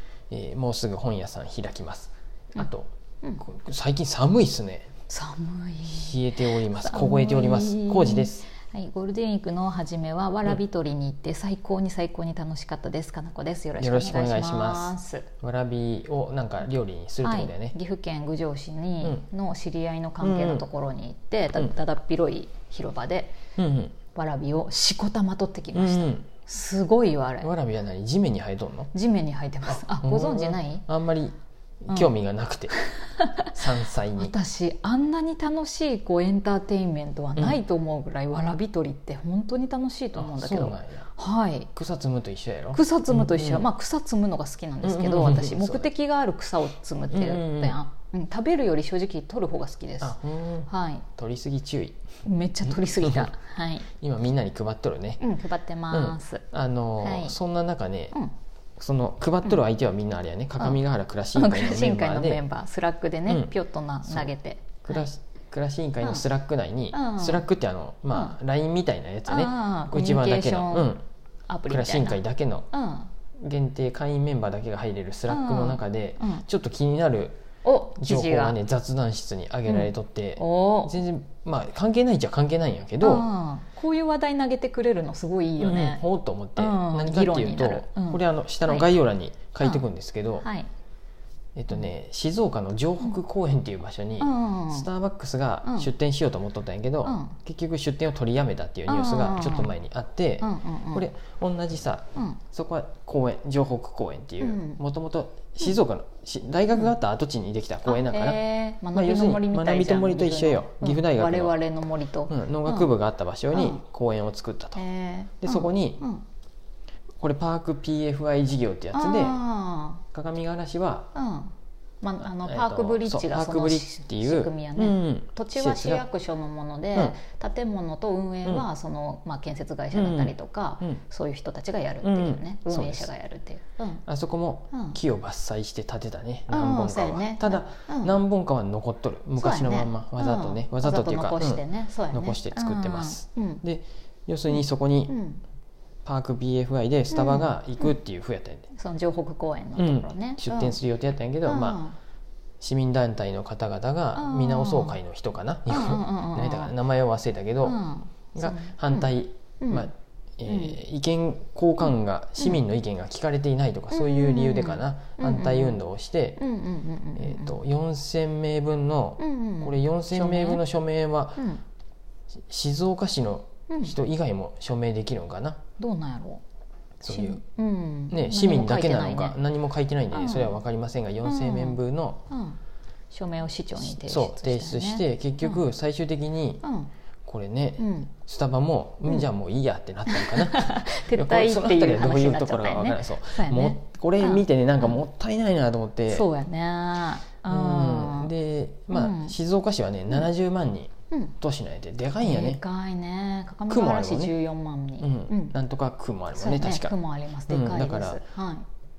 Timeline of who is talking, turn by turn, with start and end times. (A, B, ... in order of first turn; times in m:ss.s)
0:00.3-0:04.9 A
0:05.1-0:15.3 B
0:05.8-0:08.5 A
0:13.8-0:17.8 A
0:17.2-0:23.4 B
0:20.2-0:20.6 A
0:23.6-0:24.0 A
0:24.2-0:27.5 B
0:25.7-0:26.3 A
0:27.4-0:28.9 A
0:28.9-0:30.8 B
0:29.7-0:32.7 A
0:32.7-0:33.5 B
0:33.5-0:34.3 A
0:34.2-0:41.7 B
0:40.2-0:41.1 A
0:41.7-0:43.6 A
0:42.7-0:51.0 B
0:44.8-0:45.9 A
0:47.1-0:47.8 A
0:50.0-0:52.0 A
0:52.2-0:53.9 B
0:52.6-0:53.3 A
0:53.9-0:55.2 A
0:55.2-0:56.4 B
0:55.9-0:58.2 A
0:57.0-0:57.4 B
0:58.8-1:02.4 A
1:01.3-1:05.1 B
1:04.1-1:04.3 A
1:04.8-1:11.0 A
1:06.9-1:07.4 B
1:09.2-1:10.9 B
1:11.5-1:13.1 B
1:11.7-1:12.7 A
1:13.4-1:17.4 A
1:15.3-1:16.4 B
1:17.6-1:18.6 B
1:18.0-1:23.3 A
1:19.7-1:21.0 B
1:23.0-1:26.0 B
1:25.6-1:30.5 A
1:26.6-1:28.9 B
1:30.4-1:30.7 B
1:31.6-1:48.4 A
1:34.2-1:34.9 B
1:35.6-1:35.9 B
1:37.0-1:37.3 B
1:38.9-1:39.7 B
1:40.4-1:41.0 B
1:44.4-1:44.8 B
1:47.9-1:52.9 B
1:48.9-1:51.6 A
1:52.3-1:54.8 A
1:53.5-1:53.8 B
1:54.8-1:56.2 B
1:55.4-1:56.0 A
1:57.2-1:59.4 A
1:58.9-2:00.0 B
2:00.1-2:01.1 A
2:01.2-2:14.0 B
2:02.2-2:06.0 A
2:09.9-2:11.0 A
2:12.0-2:13.1 A
2:14.1-2:25.2 A
2:14.7-2:15.0 B
2:16.5-2:18.2 B
2:19.4-2:23.6 B
2:24.5-2:25.4 B
2:26.0-2:28.7 A
2:27.1-2:27.5 B
2:28.7-2:30.8 B
2:29.8-2:31.8 A
2:31.4-2:32.0 B
2:32.6-2:37.8 A
2:34.2-2:35.0 B
2:35.7-2:36.7 B
2:37.6-2:39.1 B
2:38.4-2:46.4 A
2:39.6-2:39.9 B
2:40.4-2:40.8 B
2:43.9-2:45.8 B
2:46.4-2:47.5 B
2:47.2-2:51.5 A
2:49.2-2:50.6 B
2:51.4-2:51.6 B
2:52.5-2:55.6 A
2:53.7-2:54.0 B
2:55.8-2:56.4 B
2:57.0-2:57.4 A
2:57.1-2:59.4 B
2:58.1-3:02.2 A
3:00.1-3:00.6 B
3:01.2-3:01.8 B
3:02.3-3:02.6 B
3:03.1-3:05.6 B
3:03.8-3:06.6 A
3:06.6-3:06.9 B
3:07.2-3:16.3 A
3:07.8-3:08.1 B
3:10.1-3:15.0 B
3:16.1-3:18.3 B
3:17.5-3:22.6 A
3:18.9-3:19.3 B
3:22.2-3:25.6 B
3:23.7-3:24.3 A
3:25.0-3:26.9 A
3:26.4-3:28.6 B
3:27.5-3:28.2 A